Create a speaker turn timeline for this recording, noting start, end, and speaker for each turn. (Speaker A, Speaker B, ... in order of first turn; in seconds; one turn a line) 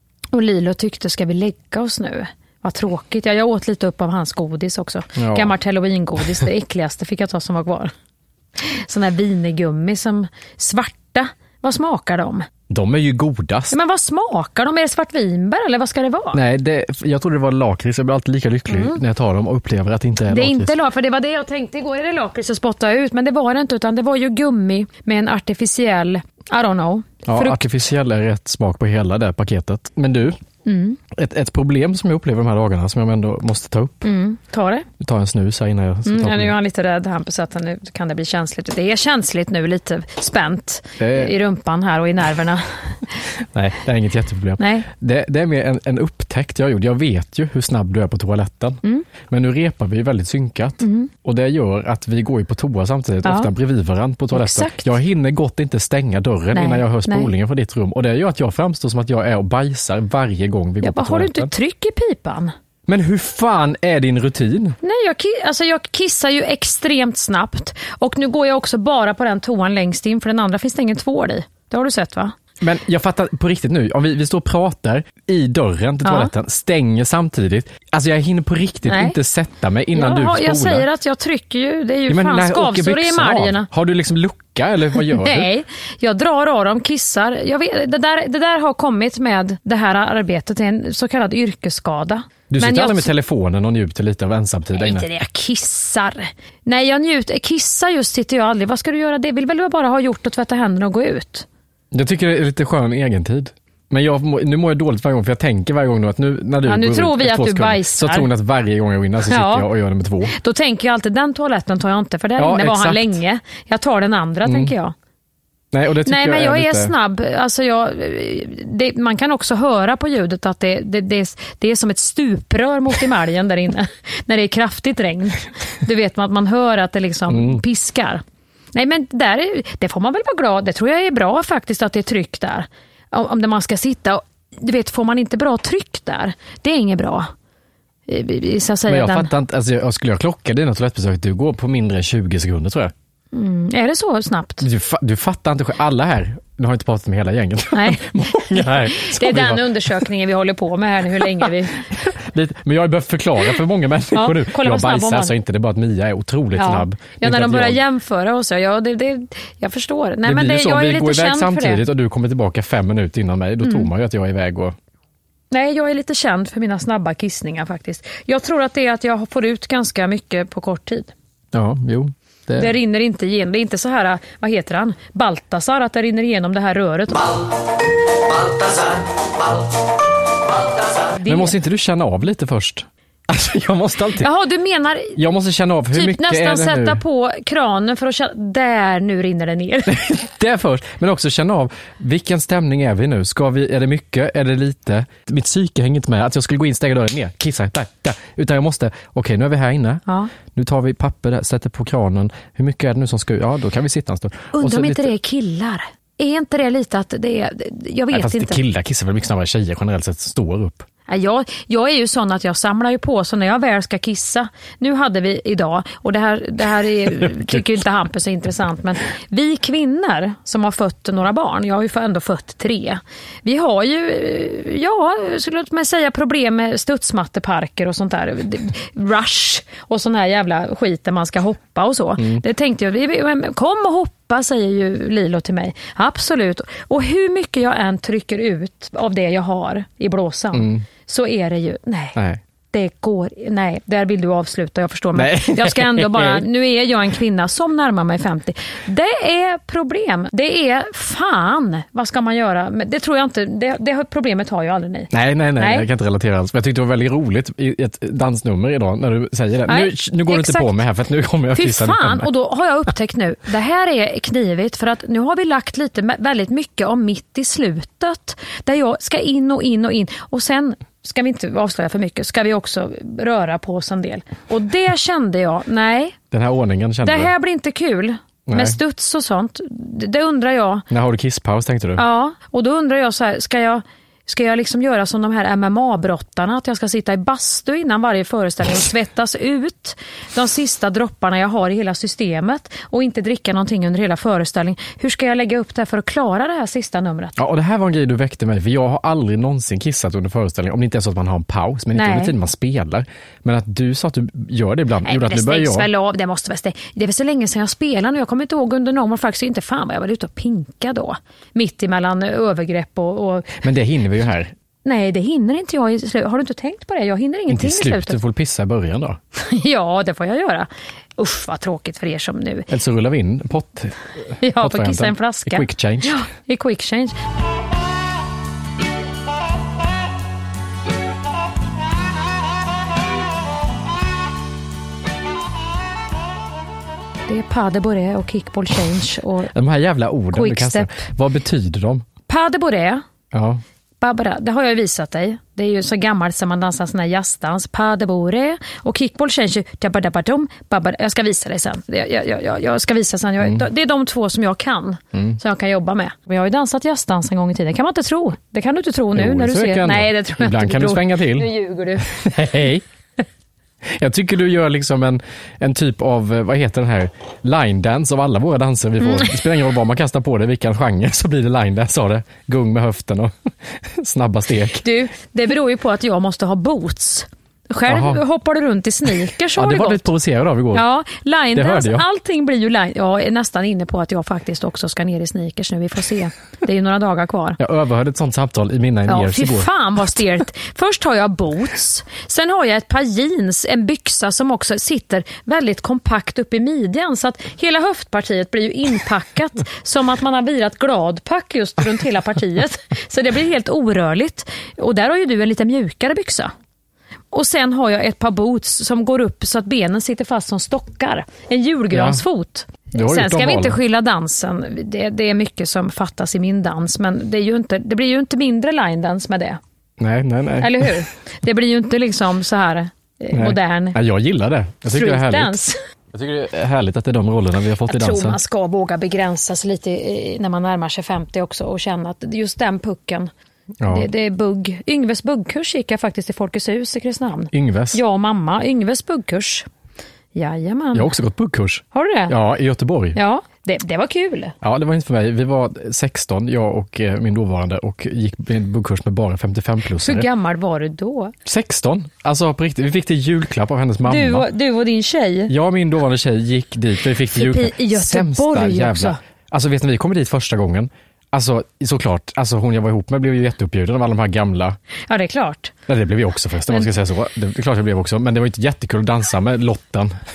Speaker A: 0.3-7.9
Speaker B: 5.2-5.5
Speaker A: 8.6-12.5
Speaker B: 12.7-13.8
Speaker A: 13.7-16.4
Speaker B: 16.3-20.7
Speaker A: 18.7-19.0
Speaker A: 20.3-27.7
Speaker B: 27.2-30.4
Speaker A: 30.6-31.0
Speaker B: 31.1-34.0
Speaker A: 34.0-34.9
Speaker B: 35.0-36.5
Speaker A: 36.0-43.0
Speaker B: 41.0-41.3
Speaker B: 43.5-61.5
Speaker A: 44.6-44.9
Speaker A: 50.8-51.1
Speaker A: 53.2-53.5
Speaker A: 54.3-55.0
Speaker A: 56.5-57.3
Speaker A: 60.8-62.5
Speaker B: 62.9-64.8
Speaker A: 64.8-72.3
Speaker B: 72.6-80.9
Speaker A: 76.0-76.3
Speaker A: 78.9-79.2
Speaker A: 79.9-83.7
Speaker B: 82.1-85.5
Speaker A: 85.0-93.1
Speaker B: 92.5-95.1
Speaker A: 94.7-101.5
Speaker B: 101.9-110.3
Speaker A: 106.6-108.3
Speaker A: 109.3-109.7
Speaker A: 110.3-114.9
Speaker B: 112.4-113.2
Speaker B: 114.4-114.7
Speaker B: 115.7-116.9
Speaker A: 116.0-128.2
Speaker B: 127.3-127.6
Speaker A: 128.8-137.3
Speaker A: 138.1-139.3
Speaker B: 138.9-142.9
Speaker A: 143.3-144.7
Speaker B: 144.6-150.0
Speaker A: 147.7-151.9
Speaker B: 151.2-157.8
Speaker A: 154.1-155.3
Speaker A: 156.5-161.8
Speaker B: 160.2-164.8
Speaker A: 163.6-163.9
Speaker A: 165.5-171.1
Speaker B: 171.5-172.8
Speaker A: 172.6-177.4
Speaker A: 181.0-181.5
Speaker B: 181.2-184.3
Speaker A: 184.2-185.2
Speaker B: 185.2-187.0
Speaker A: 185.9-189.9
Speaker B: 189.9-200.0
Speaker A: 200.1-200.3
Speaker B: 200.5-205.1
Speaker A: 204.5-208.6
Speaker B: 208.1-210.9
Speaker A: 211.1-242.2
Speaker B: 232.2-232.4
Speaker B: 240.5-240.9
Speaker B: 242.1-242.4
Speaker A: 242.7-255.9
Speaker B: 245.1-246.4
Speaker B: 255.1-262.3
Speaker A: 259.7-260.8
Speaker A: 261.5-276.2
Speaker B: 276.3-277.3
Speaker A: 277.0-280.9
Speaker B: 278.5-278.8
Speaker B: 280.9-282.0
Speaker A: 282.0-297.4
Speaker B: 297.4-305.9
Speaker A: 301.9-302.4
Speaker A: 305.0-313.6
Speaker B: 313.6-314.5
Speaker A: 314.9-318.2
Speaker B: 317.5-319.2
Speaker A: 319.4-322.7
Speaker B: 322.7-326.2
Speaker A: 324.4-327.1
Speaker A: 337.3-339.5
Speaker B: 339.5-342.1
Speaker A: 340.3-341.0
Speaker A: 342.3-343.0
Speaker B: 343.3-343.6
Speaker A: 344.0-362.1
Speaker B: 353.4-353.6
Speaker B: 355.1-355.4
Speaker B: 359.1-362.8
Speaker B: 363.8-374.8
Speaker A: 374.8-380.1
Speaker B: 377.9-378.2
Speaker B: 379.6-380.9
Speaker A: 380.7-387.6
Speaker B: 381.5-382.1
Speaker B: 387.6-389.7
Speaker A: 389.1-406.5
Speaker A: 407.3-419.6
Speaker B: 411.9-412.2
Speaker B: 412.9-413.8
Speaker B: 420.0-421.0
Speaker A: 420.6-424.0
Speaker B: 423.3-425.6
Speaker A: 424.9-425.8
Speaker B: 426.1-428.4
Speaker A: 427.9-433.3
Speaker B: 433.8-434.1
Speaker A: 433.9-439.6
Speaker B: 437.5-438.0
Speaker A: 440.4-441.1
Speaker B: 440.9-443.2
Speaker A: 441.9-442.3
Speaker A: 443.1-444.5
Speaker B: 444.6-450.3
Speaker A: 450.0-451.3
Speaker B: 451.4-454.5
Speaker A: 454.1-455.5
Speaker B: 455.5-464.8
Speaker A: 457.3-459.2
Speaker A: 465.1-465.7
Speaker B: 465.9-470.1